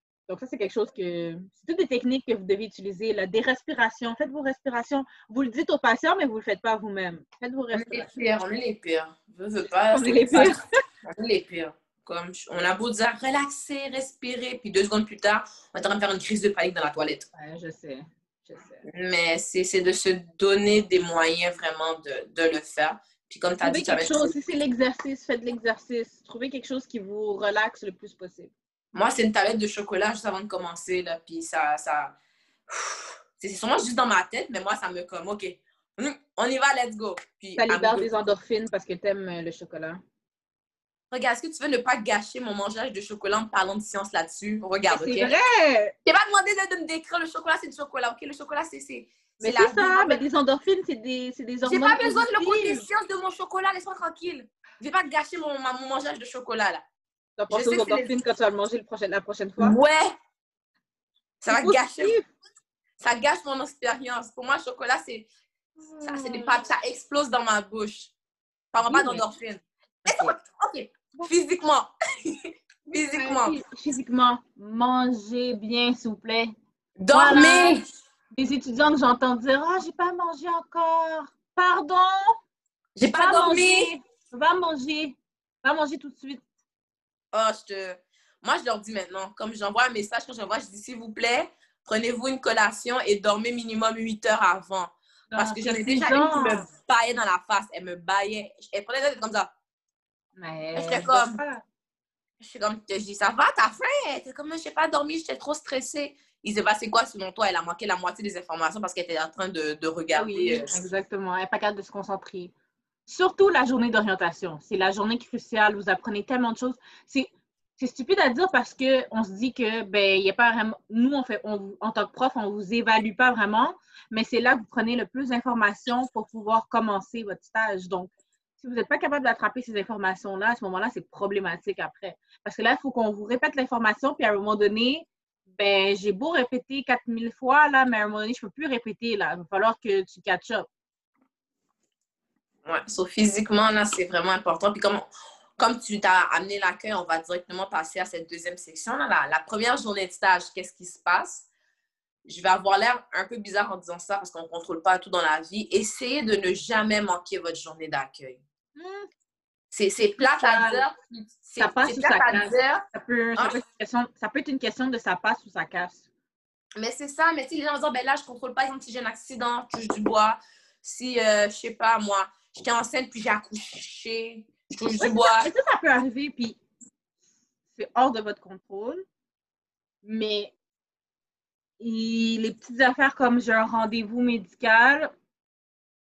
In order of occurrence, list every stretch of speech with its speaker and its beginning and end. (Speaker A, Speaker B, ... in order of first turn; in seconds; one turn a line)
Speaker A: 0.3-8.2
Speaker B: 7.7-17.3
Speaker A: 9.9-10.6
Speaker A: 17.3-18.8
Speaker B: 18.8-24.3
Speaker A: 23.6-28.5
Speaker B: 28.9-32.1
Speaker B: 32.7-38.0
Speaker A: 37.6-40.0
Speaker B: 41.1-45.3
Speaker A: 44.9-45.9
Speaker B: 46.0-50.2
Speaker A: 49.4-52.9
Speaker B: 51.6-56.8
Speaker A: 57.4-59.8
Speaker B: 57.5-58.1
Speaker B: 59.6-60.1
Speaker B: 61.4-62.1
Speaker A: 61.5-62.3
Speaker B: 63.0-65.3
Speaker A: 65.8-66.6
Speaker B: 66.0-68.1
Speaker B: 68.7-73.5
Speaker A: 68.8-69.2
Speaker A: 70.0-70.4
Speaker A: 73.1-76.5
Speaker B: 77.0-77.8
Speaker A: 77.1-77.8
Speaker A: 78.3-82.3
Speaker B: 83.0-83.9
Speaker A: 83.0-86.4
Speaker B: 87.3-99.5
Speaker A: 95.3-96.7
Speaker A: 100.4-101.6
Speaker B: 100.8-101.4
Speaker B: 102.4-110.8
Speaker A: 110.1-112.5
Speaker A: 113.1-140.7
Speaker B: 142.6-151.5
Speaker B: 152.2-158.4
Speaker A: 158.8-159.1
Speaker B: 159.7-162.8
Speaker A: 160.2-160.8
Speaker A: 161.6-166.0
Speaker B: 166.8-175.5
Speaker A: 175.0-176.6
Speaker A: 177.7-179.0
Speaker A: 180.0-180.5
Speaker A: 181.8-185.1